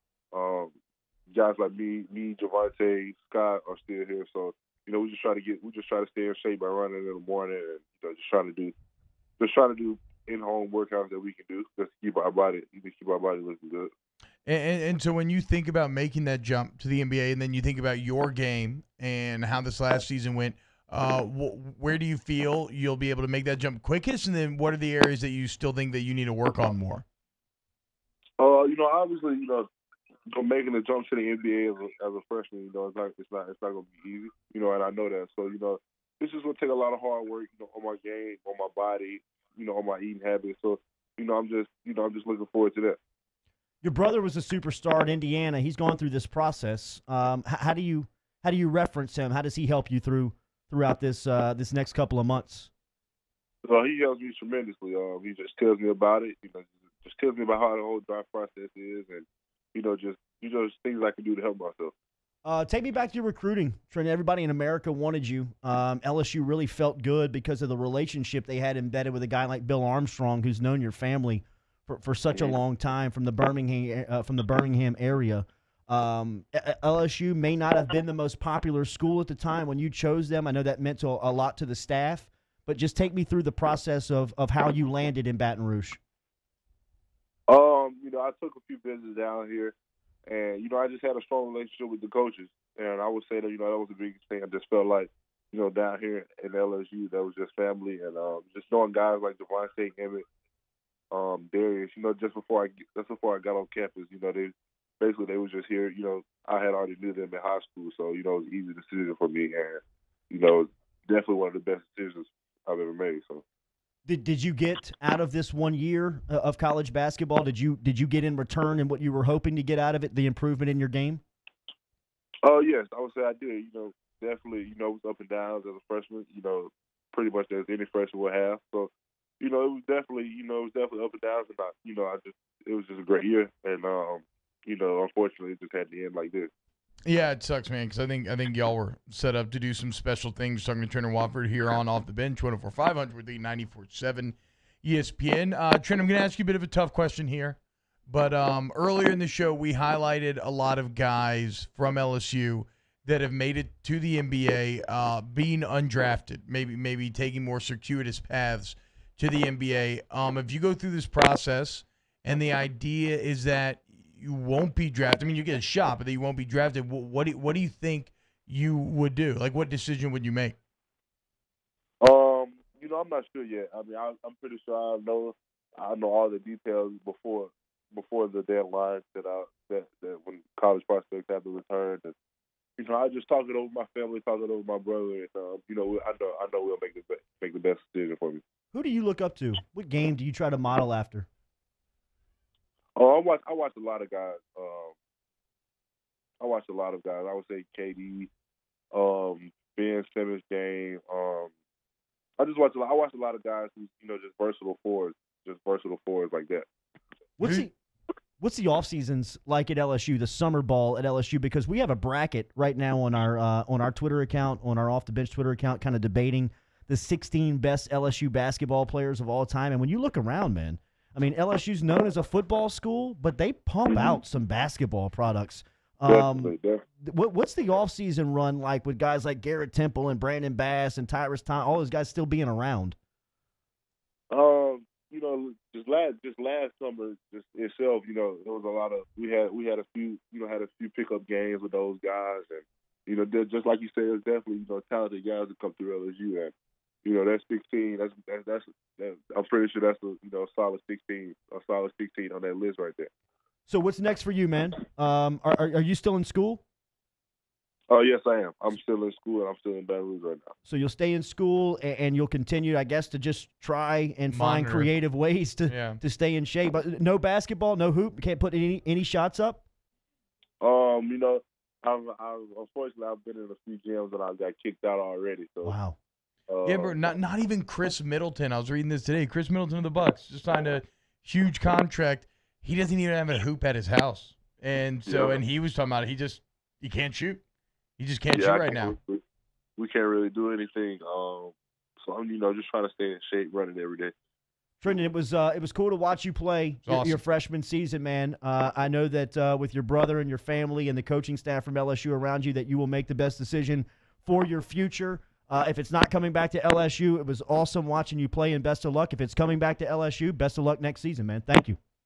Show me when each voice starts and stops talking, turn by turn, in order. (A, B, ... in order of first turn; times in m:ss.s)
0:00.3-0:00.8 A
0:01.3-0:08.7 A
0:09.4-0:13.9 A
0:14.4-0:27.0 B
0:28.4-0:29.7 A
0:30.3-0:43.0 A
0:43.8-0:52.7 C
0:53.6-1:01.9 A
1:02.4-1:26.0 C
1:27.5-1:29.7 A
1:30.3-1:40.2 A
1:41.1-1:53.4 A
1:54.0-2:01.2 C
2:02.4-2:16.5 A
2:17.0-2:50.6 B
2:52.0-3:02.1 A
3:02.8-3:08.4 A
3:08.7-3:11.3 C
3:13.0-3:14.9 A
3:16.4-3:18.3 A
3:18.9-3:21.5 A
3:22.4-3:26.6 A
3:27.4-3:27.7 C
3:28.4-3:53.0 C
3:43.9-3:44.2 A
3:46.0-3:46.8 A
3:54.3-4:06.5 A
4:07.0-4:13.1 A
4:13.7-4:16.6 C
4:17.9-4:20.5 A
4:20.6-4:29.6 C
4:24.3-4:24.9 B
4:25.7-4:26.0 B
4:30.6-4:35.7 A
4:35.6-4:36.0 C
4:36.5-4:37.0 A
4:36.6-4:47.4 B
4:45.1-4:45.4 A
4:48.0-4:49.0 B
4:48.3-4:49.2 A
4:49.8-4:54.1 A
4:54.8-5:11.8 C
4:56.8-4:57.2 B